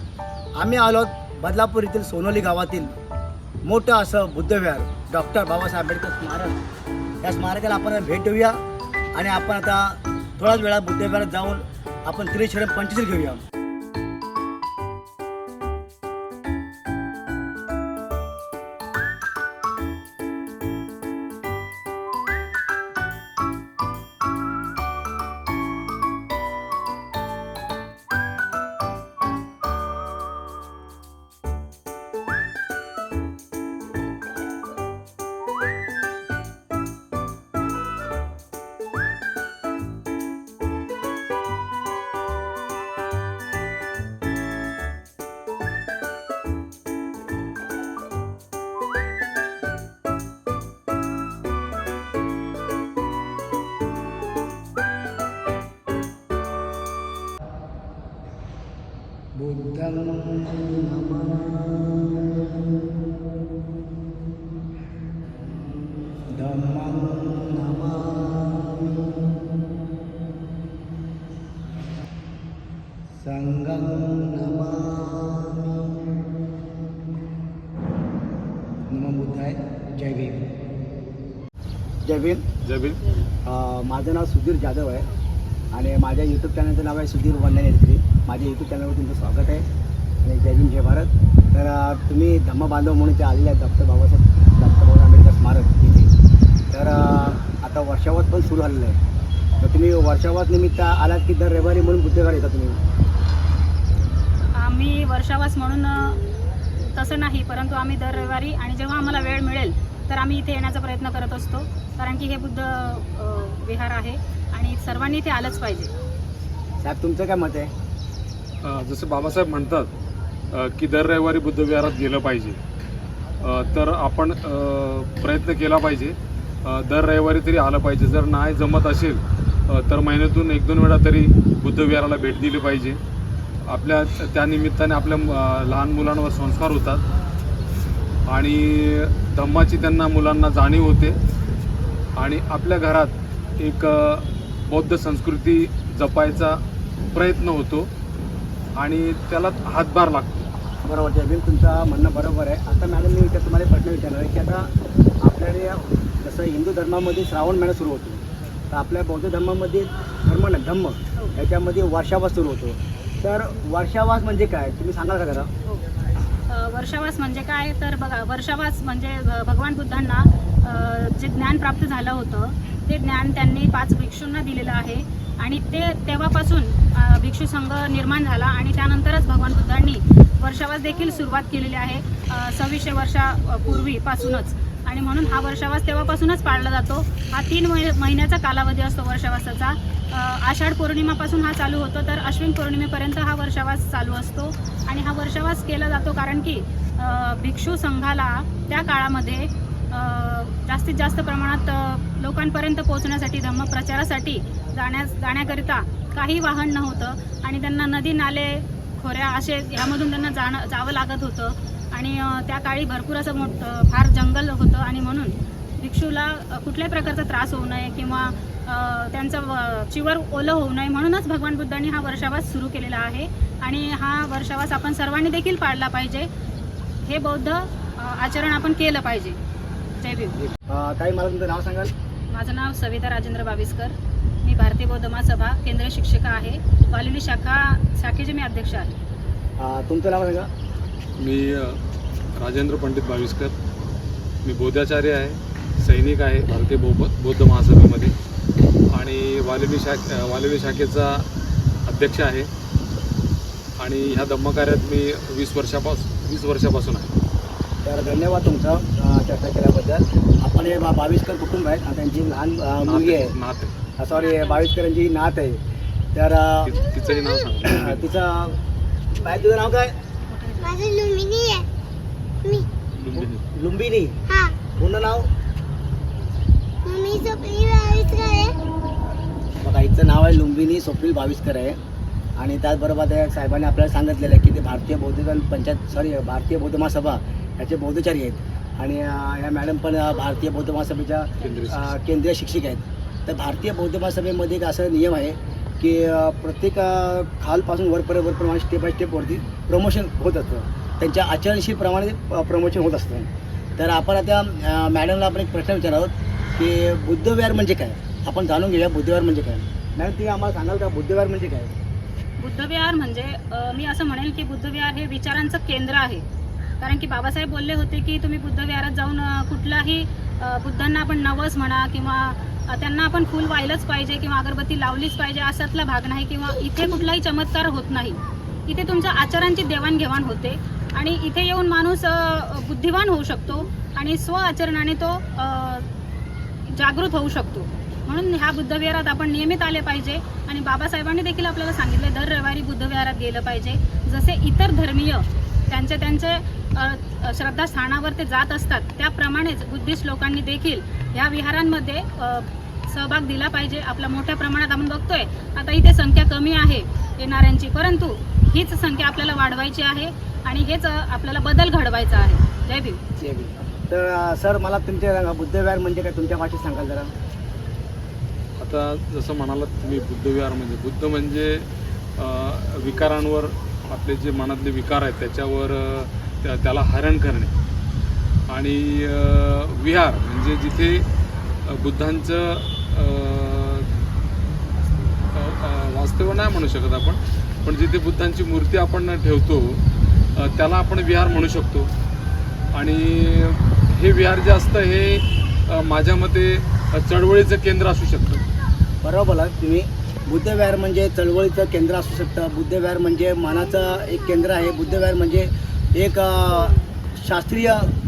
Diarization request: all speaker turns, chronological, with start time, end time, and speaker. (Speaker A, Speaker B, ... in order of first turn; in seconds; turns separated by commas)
Speaker A: 0.6-2.9, Speaker A: 3.6-6.5, Speaker A: 7.2-8.6, Speaker A: 9.1-13.4, Speaker A: 59.3-62.2, Speaker A: 66.3-69.0, Speaker A: 73.2-75.9, Speaker A: 78.9-80.5, Speaker A: 82.0-82.5, Speaker B: 82.6-83.0, Speaker A: 83.4-85.1, Speaker A: 85.7-89.6, Speaker A: 90.2-96.1, Speaker A: 96.7-99.0, Speaker A: 99.6-102.8, Speaker C: 104.5-106.2, Speaker C: 106.8-115.9, Speaker A: 116.8-117.7, Speaker B: 118.6-119.9, Speaker B: 120.5-122.6, Speaker B: 123.4-133.0, Speaker B: 133.7-137.0, Speaker B: 138.3-141.2, Speaker B: 142.2-146.6, Speaker B: 147.1-147.9, Speaker B: 148.8-150.5, Speaker A: 150.8-154.7, Speaker A: 155.2-165.5, Speaker C: 166.5-226.3, Speaker C: 227.0-229.4, Speaker C: 230.0-230.4, Speaker A: 230.7-231.9, Speaker C: 232.3-238.9, Speaker A: 239.6-240.5, Speaker B: 241.2-241.8, Speaker B: 242.4-243.5, Speaker B: 244.4-248.1, Speaker B: 248.9-251.3, Speaker B: 251.8-252.5, Speaker B: 253.8-257.1, Speaker A: 257.8-263.3, Speaker B: 262.8-263.7, Speaker A: 264.0-265.6, Speaker C: 264.1-264.6, Speaker A: 266.1-266.8, Speaker B: 266.6-268.1, Speaker A: 267.6-268.6, Speaker A: 269.2-269.9, Speaker C: 270.3-270.8, Speaker D: 270.6-271.7, Speaker B: 272.9-273.4, Speaker A: 273.1-275.3, Speaker D: 274.3-274.6, Speaker D: 276.8-278.6, Speaker A: 279.6-281.8, Speaker A: 282.4-311.7, Speaker B: 291.4-291.9, Speaker C: 312.4-316.2, Speaker C: 316.8-335.9, Speaker C: 336.7-363.0, Speaker A: 363.2-367.1, Speaker B: 368.6-377.5, Speaker B: 378.5-381.1, Speaker B: 381.6-383.9, Speaker B: 385.1-389.8, Speaker B: 390.4-391.9, Speaker B: 392.7-398.4, Speaker A: 399.0-407.9